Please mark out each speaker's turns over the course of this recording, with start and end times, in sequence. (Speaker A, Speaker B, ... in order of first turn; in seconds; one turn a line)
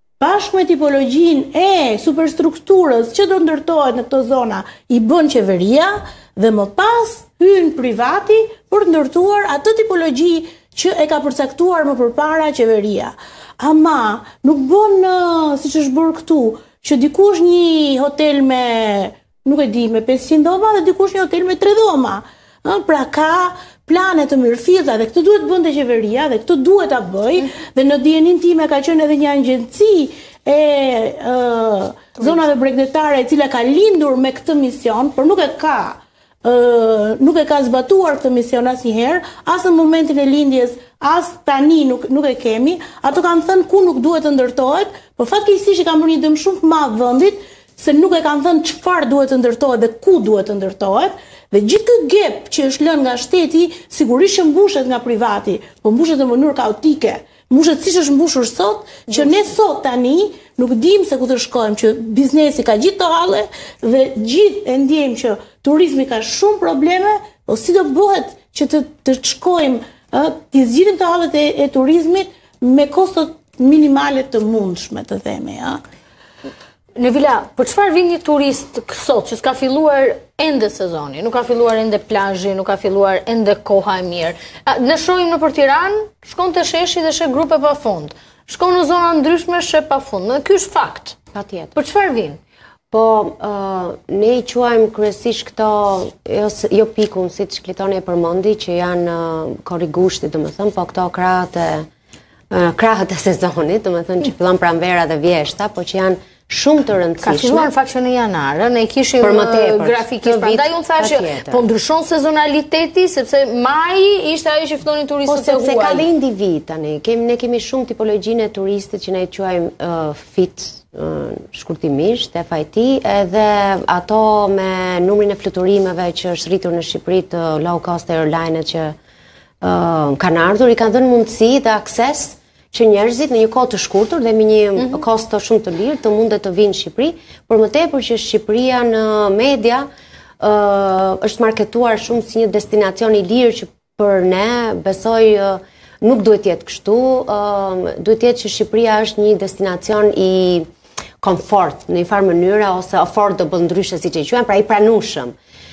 Speaker A: 0.2-75.8
Speaker B: 77.0-91.2
Speaker C: 91.3-91.8
Speaker B: 91.8-92.4
Speaker C: 92.9-101.9
Speaker C: 102.5-107.7
Speaker B: 107.2-116.0
Speaker C: 109.2-111.6
Speaker C: 115.3-128.9
Speaker C: 129.6-139.9
Speaker C: 140.4-150.7
Speaker C: 151.2-155.3